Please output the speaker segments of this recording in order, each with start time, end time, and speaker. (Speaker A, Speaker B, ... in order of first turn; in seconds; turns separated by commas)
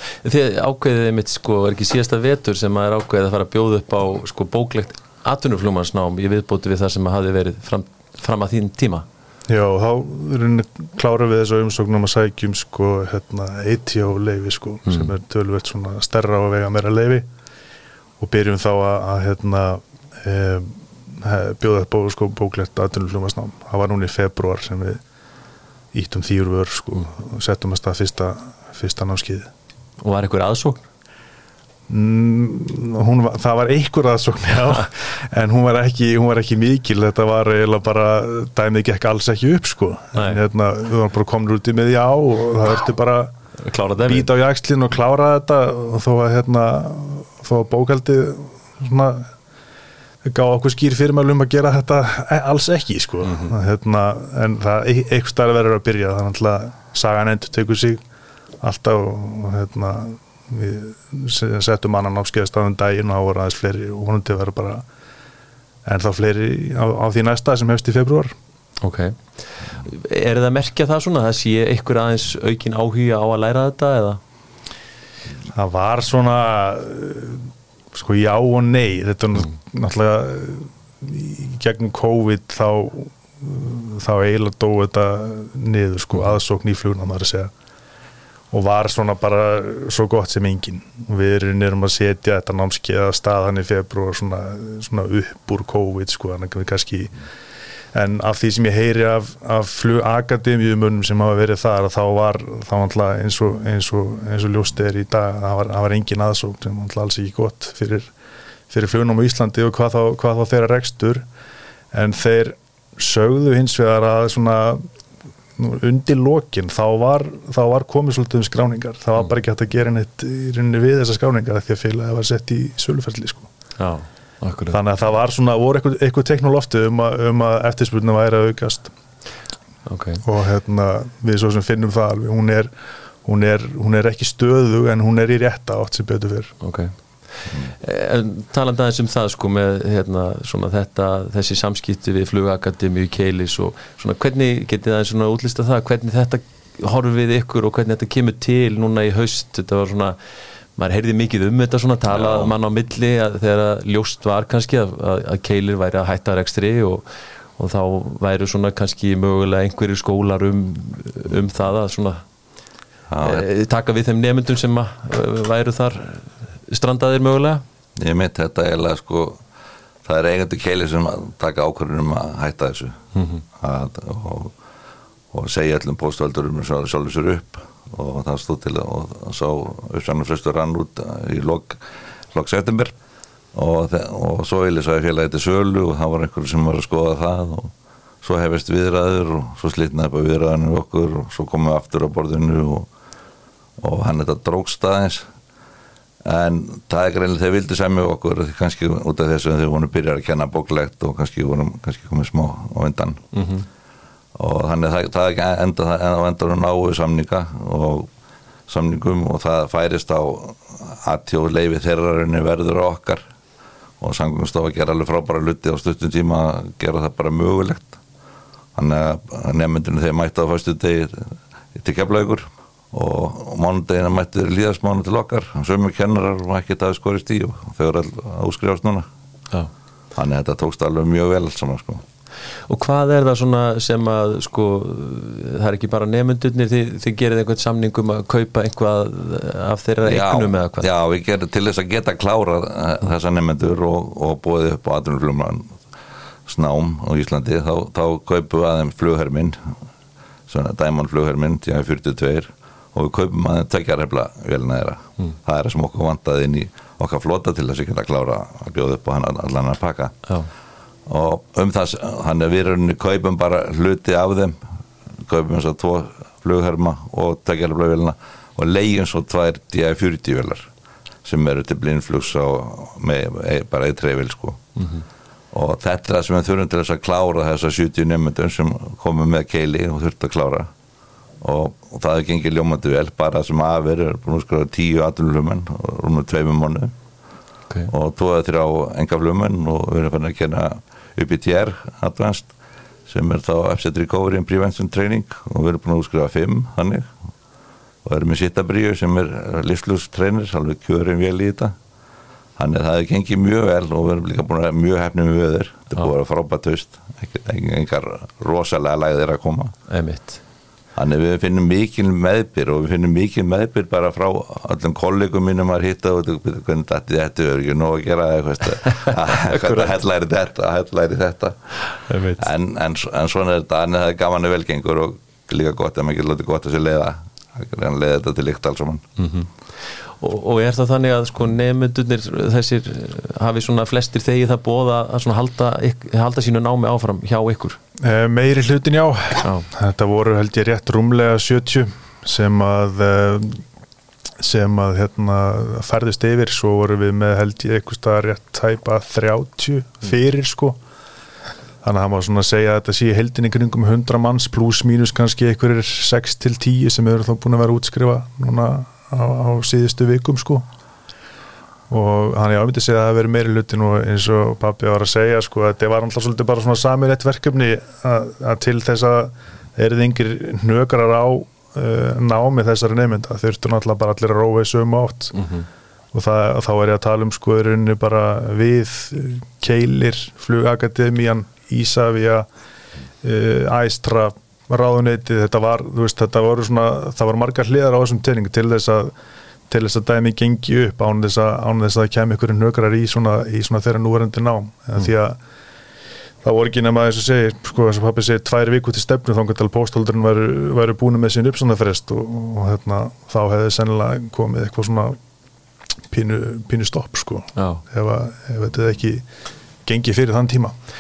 Speaker A: 0.2-9.1, Speaker B: 9.5-17.3, Speaker A: 14.9-15.1, Speaker B: 18.2-25.0, Speaker B: 25.9-29.5, Speaker A: 30.0-30.8, Speaker B: 31.9-43.3, Speaker A: 40.1-40.4, Speaker A: 43.6-44.3, Speaker B: 44.0-49.3, Speaker B: 50.2-58.0, Speaker A: 53.2-53.5, Speaker B: 58.6-64.9, Speaker B: 65.8-68.3, Speaker A: 68.8-69.2, Speaker A: 69.8-74.2, Speaker B: 75.5-87.5, Speaker B: 88.5-97.1, Speaker B: 97.9-108.1, Speaker B: 108.7-111.3, Speaker B: 111.9-114.8, Speaker B: 115.6-123.5, Speaker A: 123.8-124.8, Speaker B: 124.7-128.9, Speaker A: 129.9-130.2, Speaker B: 130.2-132.7, Speaker B: 133.2-136.5, Speaker A: 136.6-136.9, Speaker A: 137.7-150.2, Speaker A: 150.8-157.1, Speaker C: 152.1-152.5, Speaker A: 157.6-162.2, Speaker C: 163.1-163.5, Speaker A: 163.2-167.6, Speaker C: 168.0-169.4, Speaker C: 170.1-173.0, Speaker A: 173.2-173.4, Speaker C: 173.6-174.5, Speaker C: 175.3-181.8, Speaker C: 182.3-182.9, Speaker C: 183.5-187.7, Speaker C: 188.2-192.9, Speaker C: 193.8-195.3, Speaker C: 196.2-203.2, Speaker A: 203.3-203.7, Speaker C: 204.4-208.1, Speaker C: 208.7-213.2, Speaker C: 214.0-218.0, Speaker C: 218.8-229.1, Speaker C: 230.2-232.0, Speaker A: 232.7-240.9, Speaker C: 240.1-245.8, Speaker C: 246.5-249.6, Speaker C: 250.5-260.2, Speaker C: 261.1-264.6, Speaker C: 265.3-270.7, Speaker C: 271.2-274.6, Speaker A: 274.8-275.0, Speaker C: 275.5-280.7, Speaker C: 281.4-286.9, Speaker C: 287.9-292.5, Speaker C: 293.1-297.1, Speaker C: 298.1-301.7, Speaker C: 302.6-309.7, Speaker A: 309.9-310.4, Speaker C: 311.0-321.7, Speaker A: 318.9-319.9, Speaker A: 322.1-322.5, Speaker C: 322.4-329.1, Speaker A: 329.2-329.5, Speaker A: 330.2-337.8, Speaker B: 338.0-343.6, Speaker B: 344.4-350.8, Speaker B: 351.8-360.7, Speaker B: 361.9-375.4, Speaker A: 375.3-375.7, Speaker B: 376.1-382.5, Speaker B: 383.2-389.1, Speaker B: 389.7-395.4, Speaker B: 396.4-405.2, Speaker B: 406.1-409.3, Speaker A: 407.6-407.8, Speaker B: 409.9-410.8